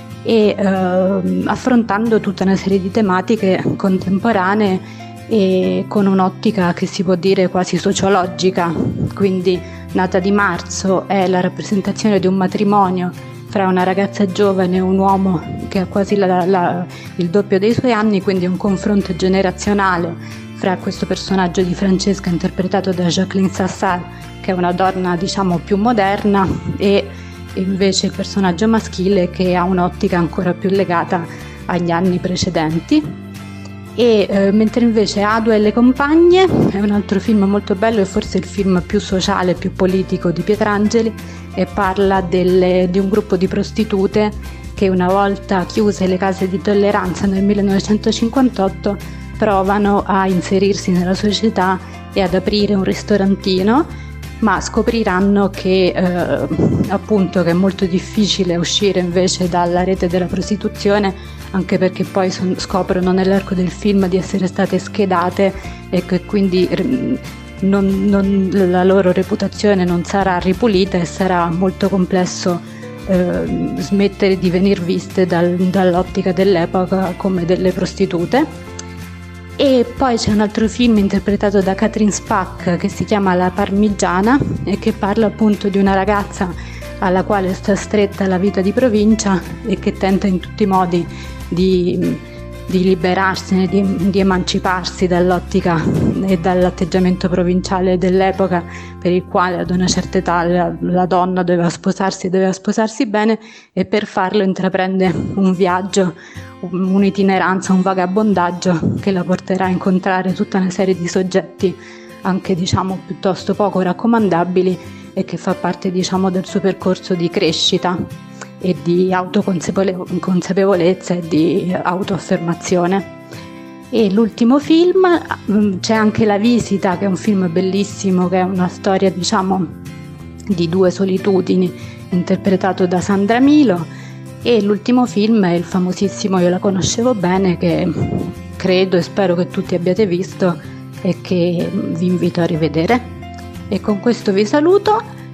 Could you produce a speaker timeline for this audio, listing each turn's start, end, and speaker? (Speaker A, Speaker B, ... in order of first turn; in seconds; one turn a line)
Speaker A: 0.2-33.1
Speaker A: 34.0-53.9
Speaker A: 54.4-78.5
Speaker A: 79.6-118.1
Speaker A: 118.6-123.1
Speaker A: 123.9-129.8
Speaker A: 130.5-133.9
Speaker A: 134.4-143.0
Speaker A: 143.7-145.0